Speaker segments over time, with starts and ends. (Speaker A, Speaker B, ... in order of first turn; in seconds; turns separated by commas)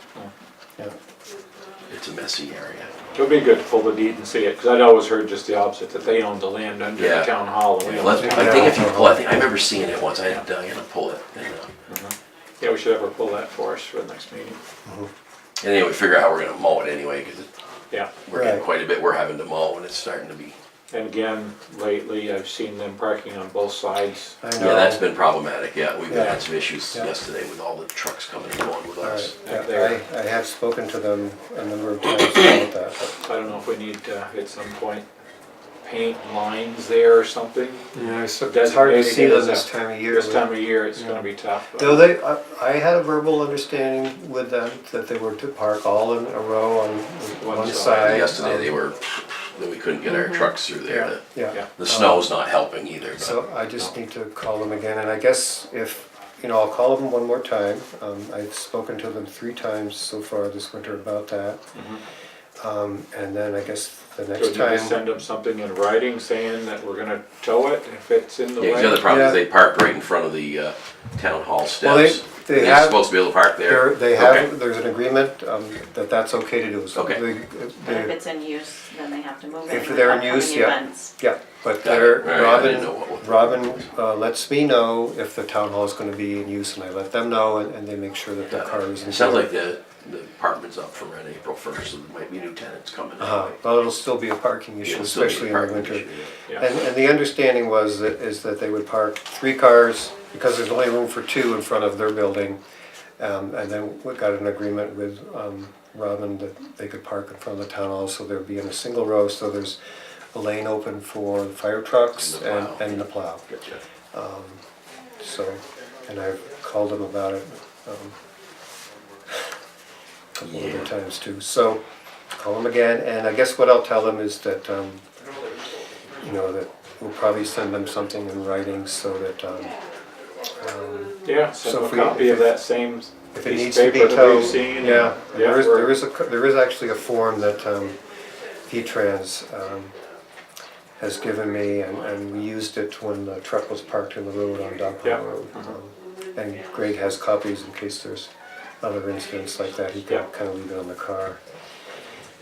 Speaker A: 1.9-3.0, Speaker B: 3.1-8.8, Speaker A: 7.0-11.7, Speaker C: 8.0-9.3, Speaker B: 11.9-14.6, Speaker A: 15.6-17.5, Speaker B: 17.9-18.2, Speaker A: 18.2-20.6, Speaker C: 18.3-18.7, Speaker B: 20.9-24.4, Speaker C: 24.4-25.1, Speaker A: 24.6-29.4, Speaker C: 26.1-26.4, Speaker C: 29.0-33.1, Speaker B: 29.4-30.0, Speaker B: 33.2-35.1, Speaker B: 35.8-42.1, Speaker C: 37.9-41.3, Speaker C: 41.8-48.8, Speaker B: 47.4-48.3, Speaker A: 47.9-53.4, Speaker D: 50.0-50.5, Speaker C: 50.9-52.3, Speaker C: 53.2-61.6, Speaker B: 61.7-62.0, Speaker C: 62.6-65.0, Speaker B: 64.4-69.0, Speaker A: 68.6-74.5, Speaker C: 69.0-69.4, Speaker C: 71.8-78.2, Speaker A: 76.9-77.2, Speaker D: 77.8-81.1, Speaker C: 79.7-89.5, Speaker A: 81.8-83.8, Speaker A: 88.5-93.5, Speaker C: 93.2-102.6, Speaker A: 94.8-96.4, Speaker C: 103.2-109.8, Speaker C: 110.3-113.5, Speaker A: 112.2-113.8, Speaker C: 114.1-114.6, Speaker C: 115.2-118.2, Speaker C: 120.4-121.8, Speaker A: 120.4-120.9, Speaker C: 122.3-125.0, Speaker C: 126.2-129.8, Speaker C: 130.6-132.6, Speaker B: 131.2-136.0, Speaker C: 133.3-138.0, Speaker C: 138.7-139.9, Speaker C: 141.0-148.3, Speaker B: 145.0-145.7, Speaker C: 148.8-151.4